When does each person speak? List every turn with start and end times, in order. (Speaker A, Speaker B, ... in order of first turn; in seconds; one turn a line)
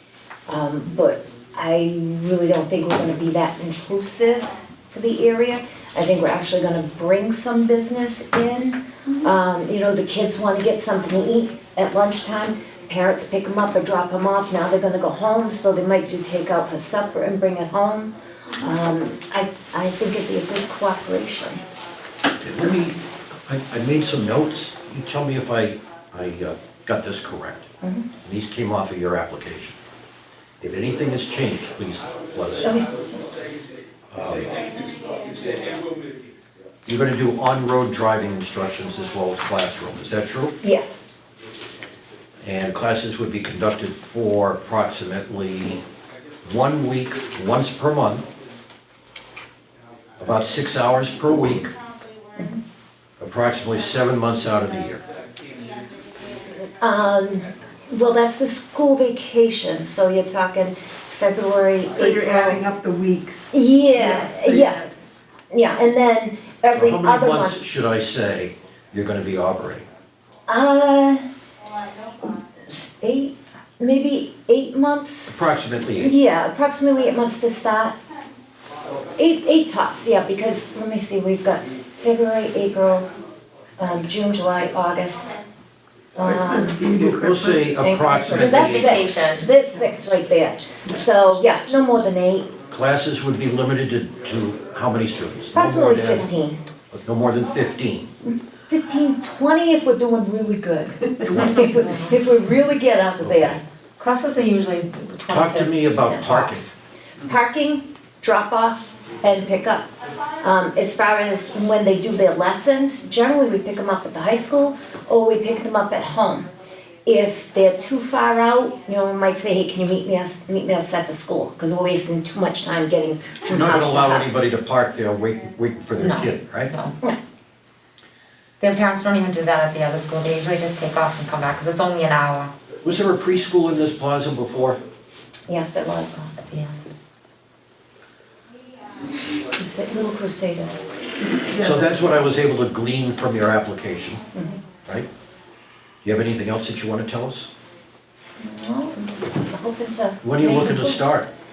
Speaker A: 0.5-21.6
Speaker B: 22.4-27.7
Speaker A: 27.8-28.1
Speaker B: 28.2-29.8
Speaker B: 30.6-32.8
Speaker A: 32.6-33.0
Speaker B: 34.1-34.7
Speaker B: 36.9-40.5
Speaker A: 40.6-41.0
Speaker B: 42.4-45.8
Speaker B: 46.4-48.3
Speaker B: 50.2-51.7
Speaker B: 53.2-55.0
Speaker A: 56.8-62.6
Speaker C: 61.9-64.8
Speaker A: 63.5-64.9
Speaker A: 65.5-67.6
Speaker B: 66.7-69.8
Speaker A: 70.5-71.2
Speaker A: 72.2-75.3
Speaker B: 75.3-76.1
Speaker A: 76.0-78.0
Speaker A: 79.2-83.1
Speaker A: 83.8-85.4
Speaker A: 86.2-86.8
Speaker C: 86.2-88.5
Speaker B: 86.9-89.1
Speaker A: 87.8-92.5
Speaker D: 88.4-89.5
Speaker B: 92.7-96.2
Speaker A: 95.5-96.6
Speaker B: 96.9-98.1
Speaker A: 98.3-103.6
Speaker B: 101.3-101.8
Speaker B: 103.2-103.6
Speaker D: 104.0-106.6
Speaker B: 105.3-106.6
Speaker A: 107.2-109.9
Speaker A: 110.4-116.5
Speaker A: 117.0-124.4
Speaker B: 123.5-126.7
Speaker D: 126.0-126.9
Speaker D: 128.6-132.5
Speaker B: 132.8-134.8
Speaker A: 135.5-136.2
Speaker D: 136.2-136.8
Speaker A: 139.5-140.8
Speaker C: 141.5-141.9
Speaker B: 141.6-144.2
Speaker B: 146.0-147.5
Speaker A: 148.4-151.0
Speaker B: 150.2-151.3